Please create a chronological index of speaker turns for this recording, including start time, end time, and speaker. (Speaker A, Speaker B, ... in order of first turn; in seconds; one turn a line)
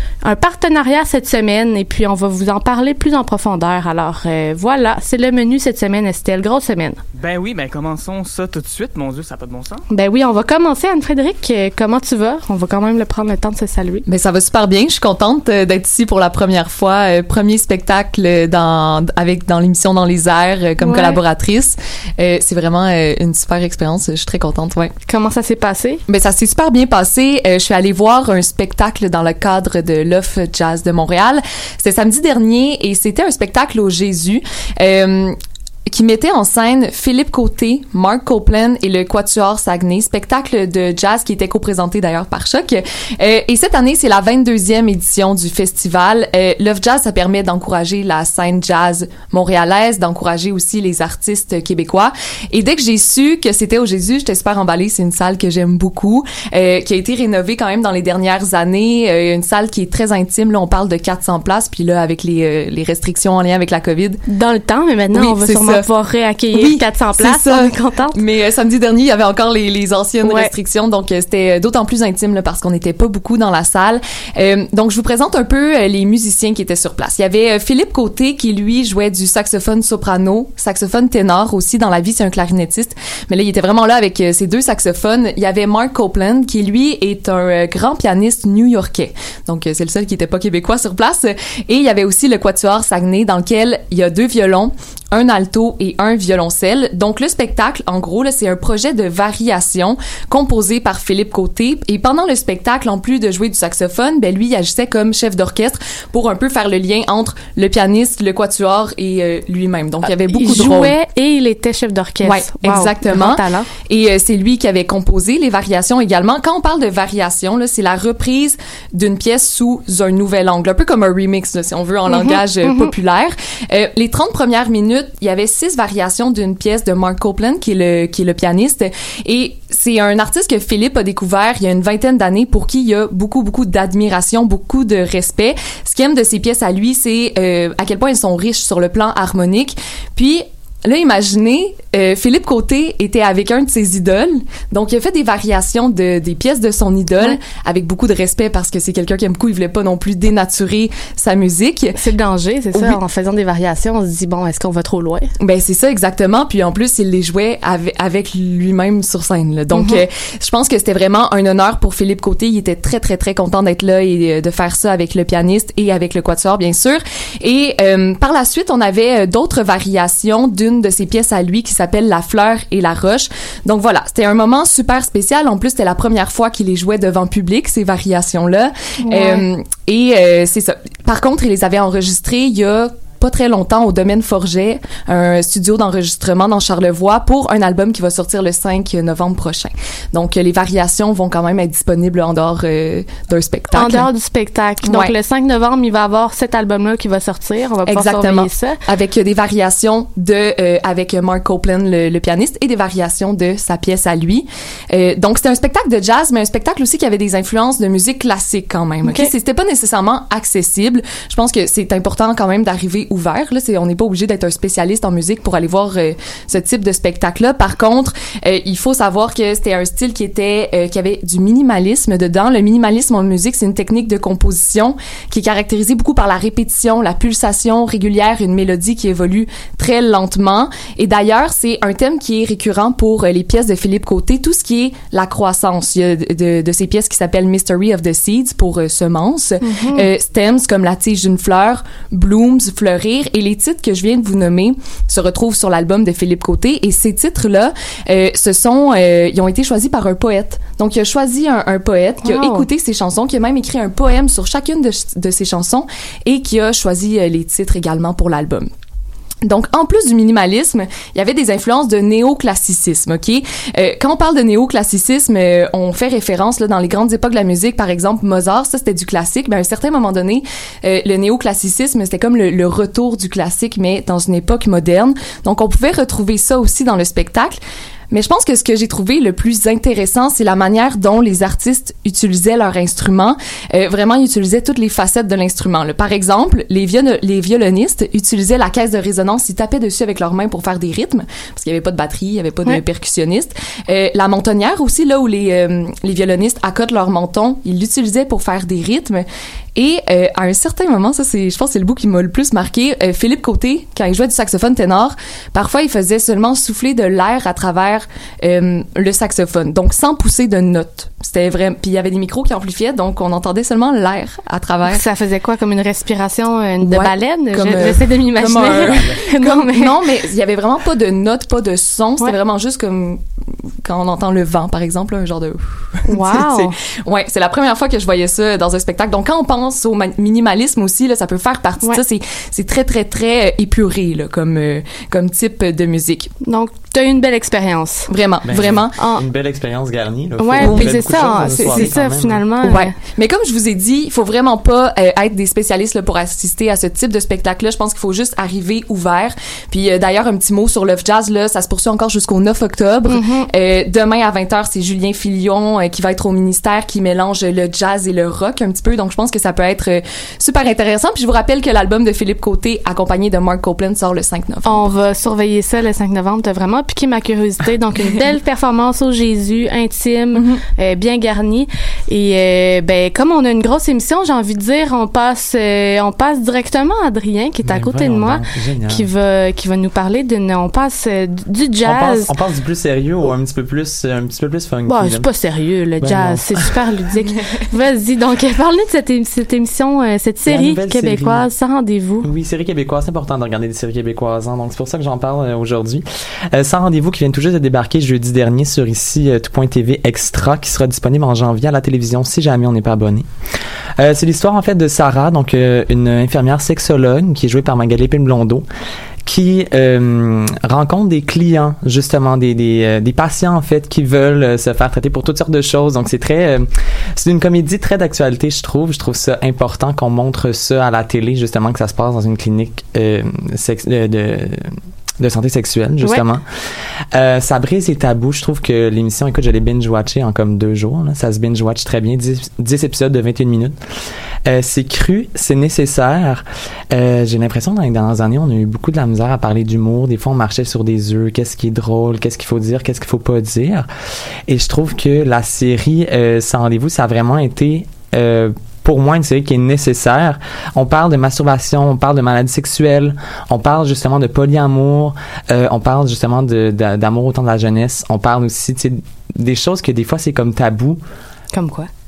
Speaker A: 0.2-7.0
Speaker B: 7.1-9.8
Speaker A: 9.9-14.0
Speaker C: 14.1-24.9
Speaker A: 20.8-21.2
Speaker A: 25.1-26.0
Speaker C: 26.1-64.2
Speaker A: 64.3-68.2
Speaker C: 65.1-65.8
Speaker C: 66.5-110.9
Speaker A: 70.2-70.5
Speaker A: 110.0-113.7
Speaker C: 112.2-152.0
Speaker A: 122.1-122.9
Speaker A: 151.9-155.3
Speaker C: 152.7-153.0
Speaker C: 155.4-194.1
Speaker A: 159.7-160.0
Speaker A: 179.1-179.4
Speaker A: 193.7-198.8
Speaker C: 194.8-195.1
Speaker C: 197.8-258.7
Speaker A: 209.0-209.3
Speaker A: 239.6-240.1
Speaker A: 252.2-252.7
Speaker C: 259.4-277.6
Speaker C: 278.1-315.0
Speaker A: 314.9-320.0
Speaker C: 316.8-323.2
Speaker C: 323.8-336.3
Speaker A: 326.1-326.7
Speaker A: 336.4-338.1
Speaker C: 338.1-338.9
Speaker D: 338.4-342.4
Speaker A: 338.9-339.2
Speaker A: 340.4-342.9
Speaker C: 340.6-342.0
Speaker C: 342.6-364.9
Speaker A: 353.1-353.5
Speaker A: 364.6-382.3
Speaker C: 370.3-370.6
Speaker D: 377.6-379.1
Speaker D: 381.8-385.2
Speaker A: 384.9-392.3
Speaker D: 386.0-386.7
Speaker D: 390.4-391.5
Speaker D: 392.2-403.2
Speaker D: 404.0-408.6
Speaker D: 409.2-426.4
Speaker D: 427.1-433.8
Speaker D: 434.4-443.9
Speaker D: 444.5-461.0
Speaker A: 461.5-461.9